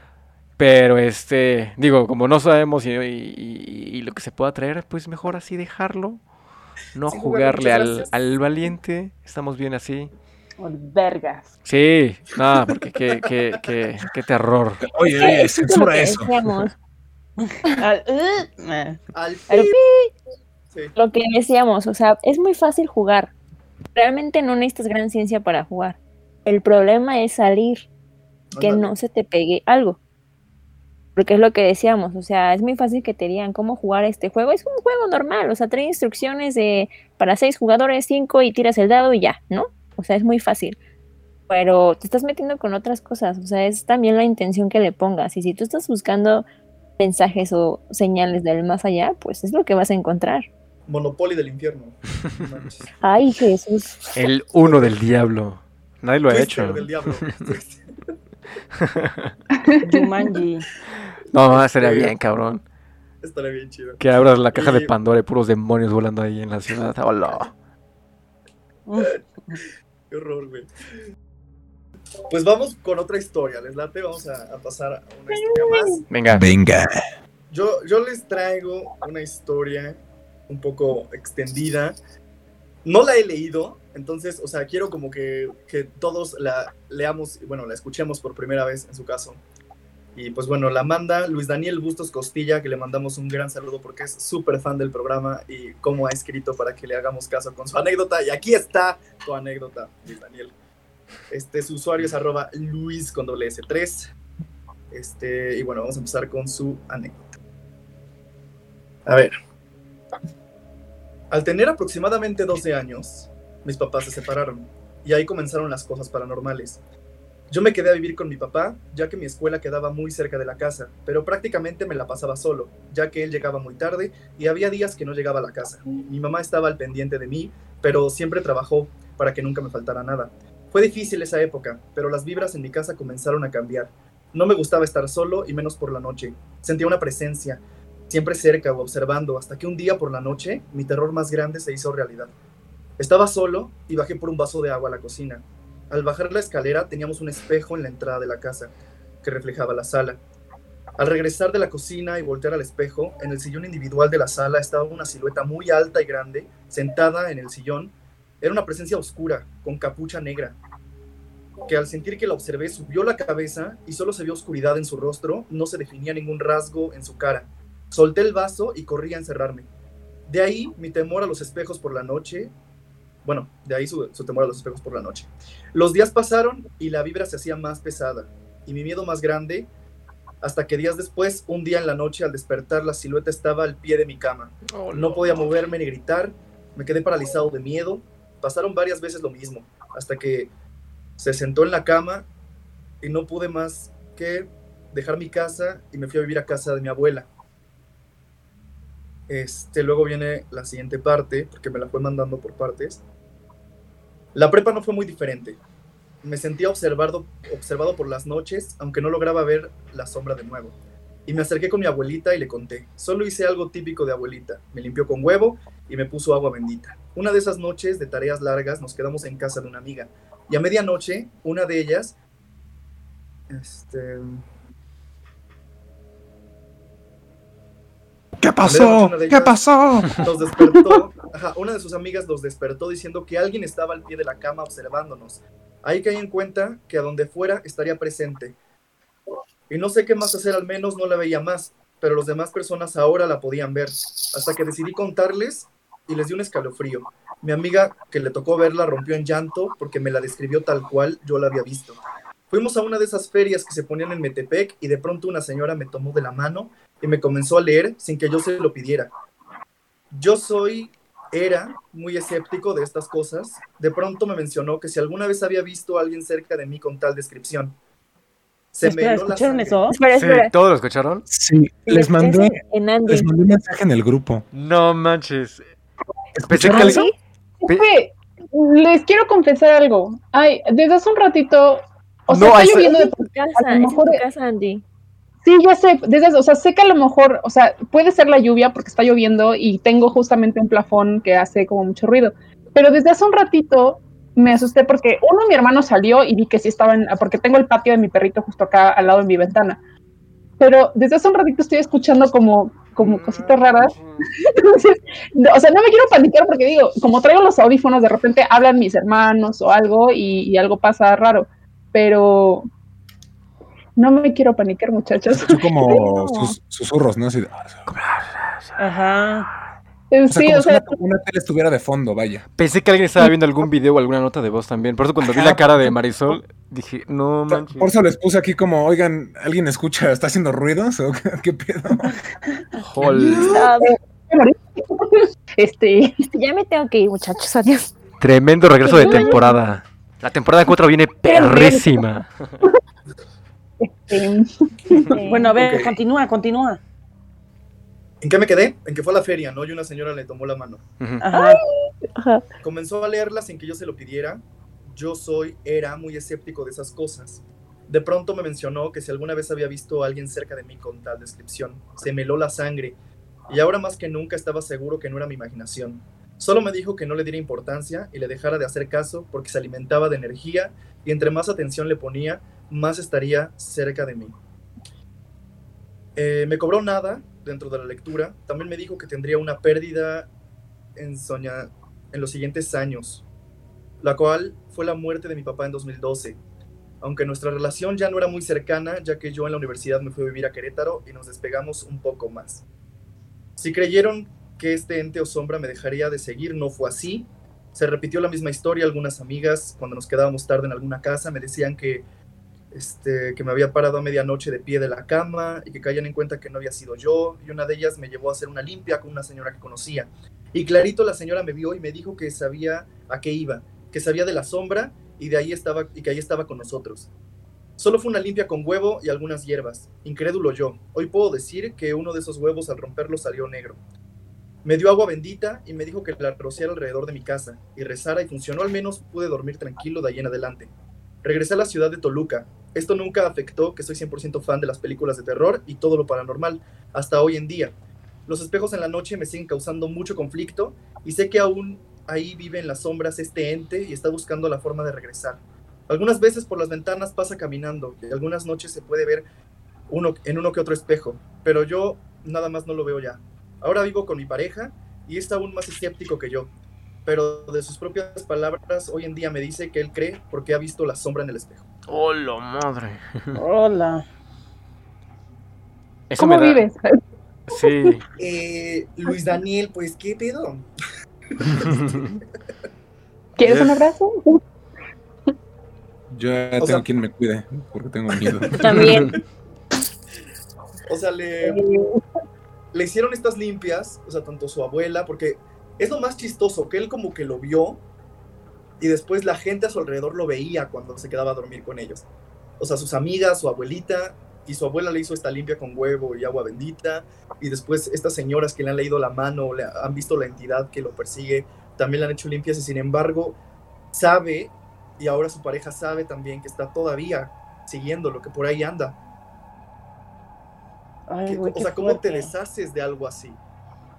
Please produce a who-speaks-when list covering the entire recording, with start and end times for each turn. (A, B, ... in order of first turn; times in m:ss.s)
0:00.6-0:06.2 A
0:06.9-0:10.1 A
0:07.1-0:08.1 B
0:10.6-0:11.5 C
0:11.6-0:14.8 A
0:14.8-0:16.4 D
0:15.2-0:16.7 E
0:17.4-0:19.0 C
0:19.1-0:19.8 B
0:19.5-0:20.1 E
0:20.9-0:23.3 E
0:23.9-0:27.8 E
0:28.5-0:28.9 B
0:28.6-0:30.0 E
0:31.2-0:40.8 E
0:41.5-0:46.4 E
0:47.0-0:50.4 E
0:50.9-0:52.9 B
0:53.0-0:54.2 E
0:54.1-0:57.3 A
0:54.6-0:55.0 B
0:56.3-0:58.1 B
0:58.8-0:59.3 A
0:59.6-1:00.1 F
0:59.8-1:00.6 C
1:01.3-1:02.6 A
1:01.4-1:02.1 B
1:03.2-1:04.0 B
1:04.0-1:07.5 A
1:04.5-1:04.9 B
1:08.9-1:09.6 C
1:10.1-1:10.7 B
1:12.3-1:16.1 B
1:15.3-1:16.0 E
1:16.1-1:16.4 A
1:16.3-1:17.0 D
1:17.5-1:22.0 B
1:22.8-1:29.4 B
1:30.2-1:40.5 B
1:41.3-1:44.1 B
1:44.9-1:47.2 B
1:49.0-1:49.3 B
1:51.3-1:56.8 B
1:57.5-2:22.3 B
2:23.0-2:30.2 B
2:31.0-2:40.6 B
2:41.7-2:49.7 B
2:50.3-2:52.5 B
2:53.2-2:59.7 B
3:00.4-3:10.5 B
3:04.7-3:05.6 A
3:11.2-3:12.3 B
3:13.0-3:17.3 B
3:19.3-3:23.0 B
3:24.3-3:25.6 B
3:26.2-3:30.8 B
3:31.3-3:42.1 B
3:43.5-3:44.4 B
3:48.4-3:50.2 D
3:48.6-3:49.6 B
3:50.1-3:58.6 B
3:59.7-4:12.0 B
4:12.5-4:19.1 B
4:20.1-4:27.8 B
4:28.7-4:29.9 B
4:28.8-4:30.0 C
4:29.9-4:30.5 E
4:30.1-4:31.2 A
4:31.3-4:34.4 D
4:32.2-4:33.3 E
4:34.5-4:35.6 A
4:36.4-4:37.0 D
4:36.5-4:37.0 A
4:36.6-4:37.1 E
4:37.6-4:44.2 F
4:42.3-4:42.7 A
4:42.4-4:44.8 E
4:45.4-4:59.8 F
5:00.6-5:12.7 F
5:03.0-5:04.3 A
5:14.0-5:16.5 F
5:15.3-5:17.8 D
5:17.9-5:18.8 A
5:18.8-5:19.5 C
5:20.1-5:21.0 F
5:20.3-5:22.5 D
5:22.6-5:27.9 A
5:25.3-5:25.9 D
5:27.8-5:32.1 D
5:32.8-5:33.5 A
5:33.3-5:33.5 B
5:33.4-5:33.9 E
5:33.4-5:36.2 F
5:36.3-5:37.9 E
5:38.2-5:42.5 A
5:38.8-5:39.6 E
5:39.0-5:39.5 F
5:41.3-5:42.0 F
5:43.8-5:45.2 F
5:45.1-5:45.6 E
5:45.2-5:46.8 C
5:45.5-5:45.9 B
5:48.2-5:50.8 B
5:51.2-5:51.6 C
5:52.1-5:52.4 E
5:52.6-6:03.0 B
6:03.5-6:14.4 B
6:16.2-6:20.3 B
6:21.0-6:23.2 B
6:24.0-6:26.4 B
6:27.0-6:32.6 B
6:33.6-6:42.0 B
6:42.7-6:57.1 B
6:57.8-7:03.8 B
7:04.6-7:10.7 B
7:11.2-7:17.7 B
7:18.2-7:29.2 B
7:29.9-7:36.5 B
7:37.0-7:41.6 B
7:41.9-7:43.4 A
7:43.3-7:44.0 C
7:46.1-7:46.6 A
7:46.2-7:46.9 F
7:47.5-7:48.0 A
7:47.6-7:48.0 F
7:48.2-7:50.6 B
7:51.4-7:52.1 B
7:51.7-7:52.0 A
7:53.4-7:54.4 F
7:53.4-7:53.8 A
7:56.1-7:59.0 D
7:56.6-7:56.8 B
7:58.5-7:59.1 B
7:58.6-7:59.2 E
8:00.9-8:01.6 B
8:01.4-8:02.0 F
8:02.7-8:07.8 B
8:08.8-8:12.0 B
8:12.6-8:23.4 B
8:23.9-8:29.0 B
8:31.1-8:32.3 C
8:31.3-8:33.4 B